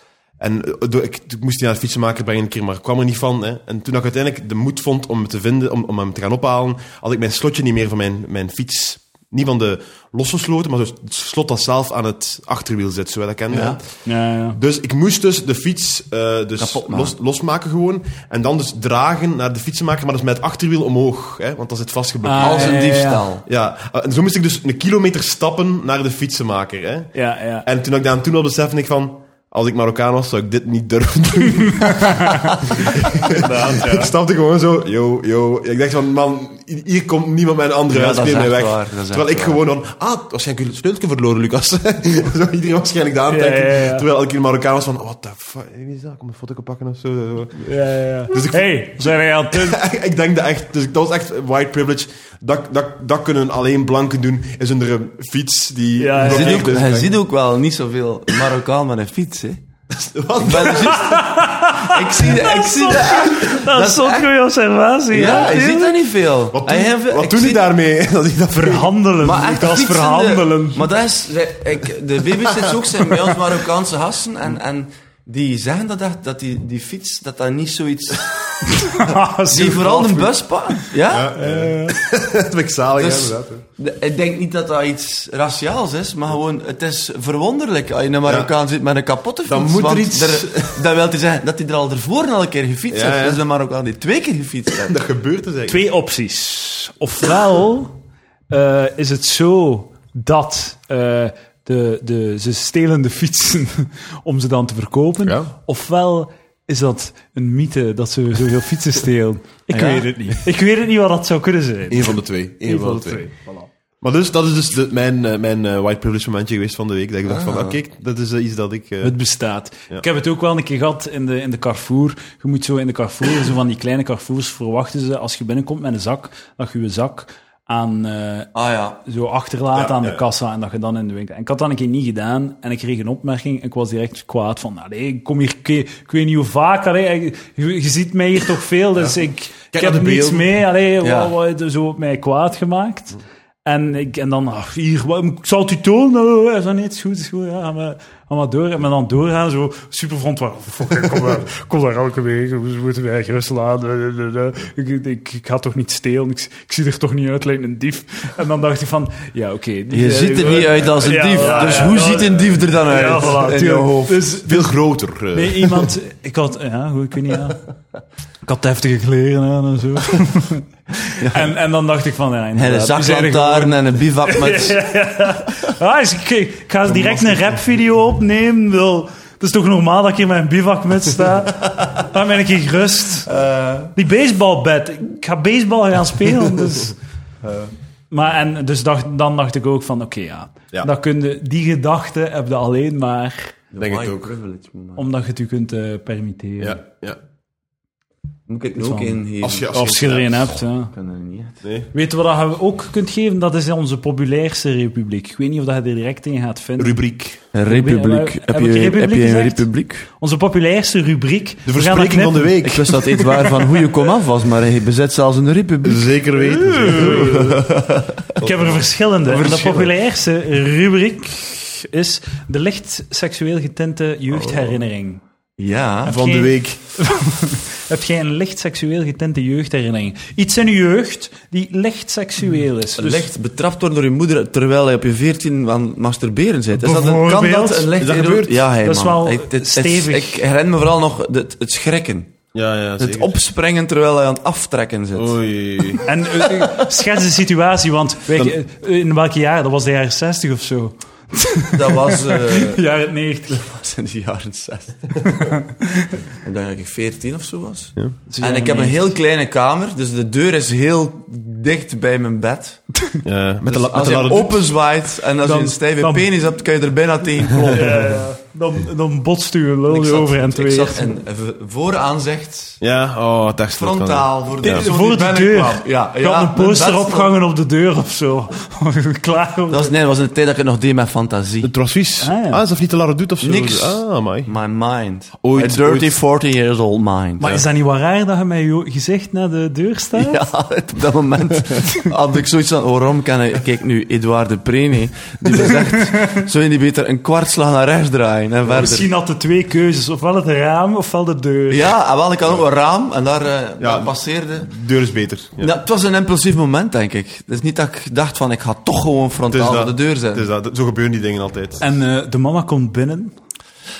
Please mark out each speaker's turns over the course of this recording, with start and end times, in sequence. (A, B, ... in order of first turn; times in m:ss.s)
0:00.4-0:22.8 A
0:13.5-0:13.8 B
0:14.0-0:14.6 C
0:16.6-0:17.1 B
0:22.2-0:23.2 C
0:22.4-0:23.4 B
0:23.4-0:47.7 A
0:27.1-0:27.7 C
0:31.8-0:34.1 C
0:37.9-0:39.6 B
0:43.3-0:44.0 C
0:47.6-0:49.8 C
0:48.3-0:57.2 A
0:56.0-0:56.7 C
0:56.2-0:59.6 B
0:59.9-1:01.2 A
1:00.4-1:04.3 B
1:00.7-1:06.0 C
1:05.1-1:07.6 B
1:05.2-1:05.5 A
1:06.5-1:08.9 A
1:08.5-1:10.9 C
1:09.2-1:18.3 B
1:18.7-1:20.2 C
1:19.5-1:21.3 B
1:19.9-1:20.3 A
1:21.1-1:23.6 A
1:21.3-1:22.0 C
1:23.0-1:35.0 B
1:28.2-1:28.5 A
1:29.4-1:30.8 A
1:32.9-1:33.4 A
1:34.9-1:35.8 A
1:35.7-1:38.0 C
1:38.5-1:53.7 C
1:45.2-1:45.5 A
1:49.7-1:50.1 B
1:51.9-1:53.3 A
1:54.0-1:59.1 A
1:57.3-1:57.8 B
1:59.0-2:08.5 C
2:08.5-2:09.0 B
2:09.0-2:44.7 C
2:09.7-2:10.2 A
2:19.7-2:20.5 A
2:21.0-2:21.3 B
2:39.9-2:44.2 B
2:44.3-2:45.9 A
2:45.3-2:47.6 C
2:48.4-3:03.3 C
2:51.1-2:51.4 B
2:52.5-2:54.8 B
2:57.0-2:57.2 A
3:03.3-3:03.9 B
3:03.9-3:07.0 C
3:08.1-3:13.5 C
3:13.7-3:15.0 B
3:13.8-3:14.3 A
3:15.0-3:16.8 C
3:16.6-3:17.2 A
3:18.5-3:19.8 B
3:18.8-3:20.9 C
3:19.4-3:20.6 A
3:20.9-3:21.6 B
3:21.6-3:21.9 A
3:21.9-3:32.7 C
3:26.8-3:27.4 A
3:27.5-3:30.1 B
3:31.6-3:33.0 A
3:32.6-3:36.1 B
3:35.8-3:37.6 A
3:36.5-3:37.5 C
3:36.9-3:38.2 B
3:38.4-3:45.2 C
3:38.4-3:38.8 A
3:39.2-3:39.9 B
3:44.3-3:44.8 A
3:45.6-3:46.2 B
3:46.0-3:53.3 C
3:46.0-3:46.8 A
3:53.0-4:02.3 B
3:56.8-3:58.0 C
3:58.0-3:58.7 A
3:58.8-4:00.4 C
4:02.5-4:03.3 A
4:03.0-4:06.0 B
4:05.1-4:06.0 A
4:06.0-4:13.6 C
4:11.7-4:12.8 B
4:13.5-4:15.2 B
4:15.2-4:16.1 C
4:16.4-4:22.9 B
4:18.3-4:19.0 C
4:23.2-4:24.7 A
4:23.6-4:28.1 B
4:25.4-4:26.3 C
4:27.7-4:31.1 C
4:29.9-4:32.8 B
4:32.8-4:34.9 A
4:33.7-4:37.3 B
4:34.6-4:39.9 C
4:39.7-4:41.7 B
4:41.6-4:44.5 A
4:42.2-4:42.6 C
4:43.4-4:47.6 B
4:45.4-4:46.2 A
4:47.4-4:50.4 C
4:50.1-4:59.1 B
4:58.7-5:01.9 C
5:01.7-5:04.7 B
5:03.8-5:05.7 A
5:05.6-5:10.4 B
5:09.5-5:11.8 A
5:11.8-5:13.3 C